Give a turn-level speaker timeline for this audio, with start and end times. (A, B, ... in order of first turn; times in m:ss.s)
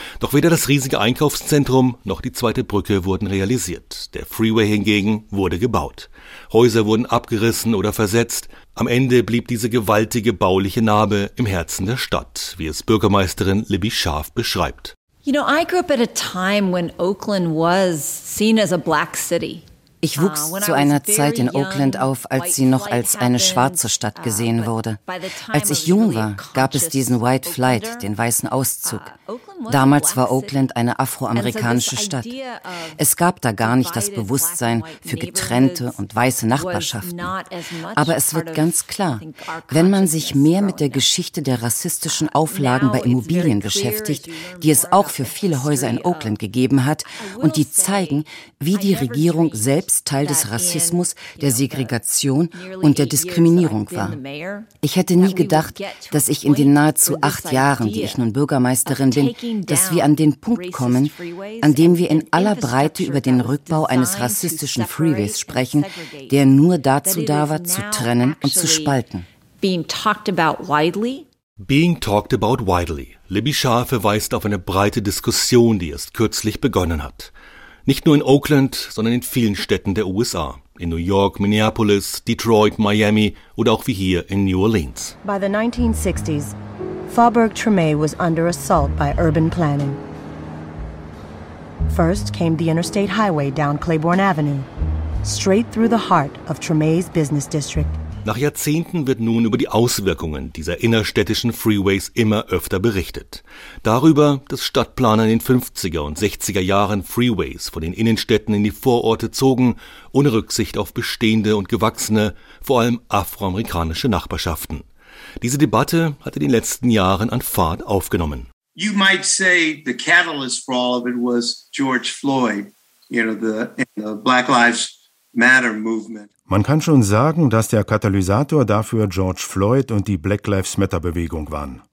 0:00.2-0:14.9 A
0:15.2-0:28.1 B
0:20.0-0:25.0 C
0:25.5-0:29.1 C
0:28.8-0:30.6 B
0:29.7-0:32.3 C
0:31.3-0:33.0 B
0:33.0-0:37.3 C
0:33.6-0:36.0 B
0:36.5-0:41.1 B
0:37.9-0:54.2 C
0:42.0-0:46.4 B
0:47.1-0:52.0 B
0:52.5-0:58.2 B
0:54.8-1:09.2 C
0:58.8-1:06.4 B
1:07.0-1:09.0 B
1:09.6-1:11.2 B
1:11.6-1:17.3 A
1:17.8-1:25.2 A
1:25.2-1:26.5 D
1:27.1-1:30.0 D
1:31.9-1:34.7 D
1:35.2-1:38.0 D
1:38.2-1:54.8 A
1:55.4-1:58.5 A
1:58.8-2:06.3 E
2:06.5-2:11.8 F